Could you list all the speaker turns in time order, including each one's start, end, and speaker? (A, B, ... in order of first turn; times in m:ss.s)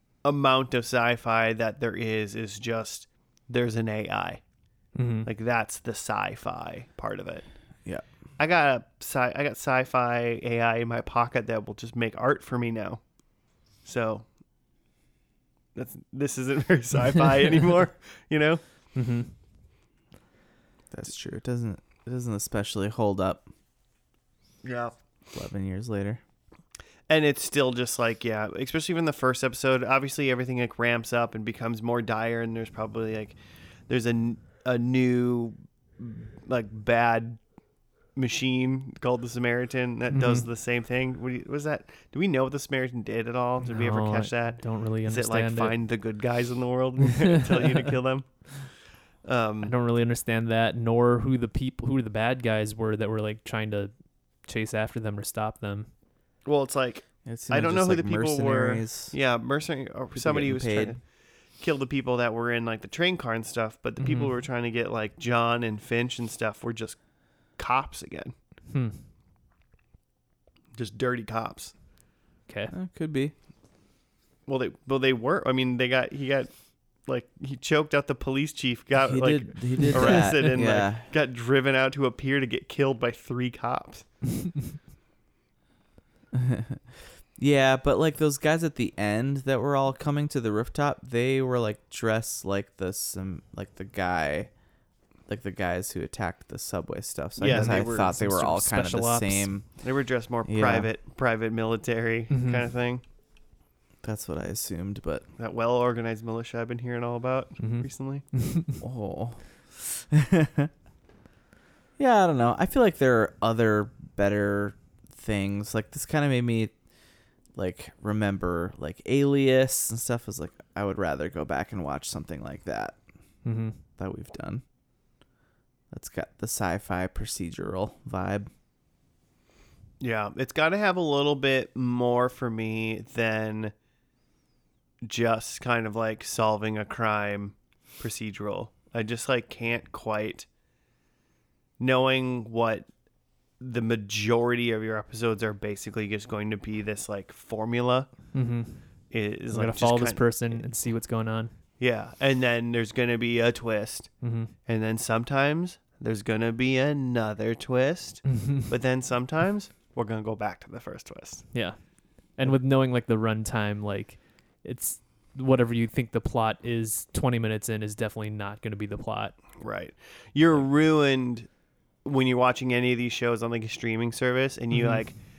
0:00.2-0:04.4 A
0:05.0-0:05.3 B
0:05.3-0:07.5 A
0:08.4-0:13.0 A
0:13.8-0:14.2 A
0:15.8-0:18.6 A
0:19.0-0:19.3 B
0:20.9-0:23.4 C
0:24.6-0:25.0 A
0:25.3-0:26.2 C
0:27.1-0:33.4 A
0:33.9-0:37.4 A
0:38.2-0:48.6 A
0:40.1-0:40.5 B
0:43.6-0:45.8 B
0:49.2-0:49.7 A
0:49.6-0:53.9 B
0:54.4-0:55.9 B
0:56.4-1:01.0 A
0:57.2-0:59.1 C
1:00.2-1:01.0 C
1:01.6-1:07.0 A
1:04.0-1:04.4 B
1:07.6-1:08.3 A
1:08.7-1:09.0 B
1:10.8-1:11.7 A
1:12.7-1:13.3 C
1:14.5-1:16.5 A
1:17.0-1:24.1 A
1:19.0-1:21.1 C
1:19.9-1:20.6 B
1:26.3-1:34.5 C
1:35.3-1:39.8 C
1:37.4-1:38.2 A
1:37.4-1:39.5 B
1:39.8-1:43.0 A
1:40.5-1:40.9 C
1:42.3-1:42.6 B
1:44.0-1:45.2 C
1:45.4-1:48.2 A
1:47.6-1:48.8 B
1:48.8-1:50.7 C
1:52.0-1:56.7 C
1:57.6-2:03.0 C
2:03.4-2:03.8 B
2:04.0-2:04.6 C
2:05.9-2:08.5 C
2:10.0-2:13.7 A
2:15.0-2:20.5 A
2:21.8-2:22.8 A
2:23.6-2:28.1 A
2:28.3-2:28.8 B
2:29.1-2:30.6 A
2:29.5-2:31.5 B
2:31.8-2:34.1 A
2:34.2-2:34.5 B
2:34.7-2:41.5 A
2:38.3-2:38.7 B
2:42.4-2:49.4 B
2:49.6-2:51.5 A
2:52.0-2:55.2 A
2:54.7-2:55.0 B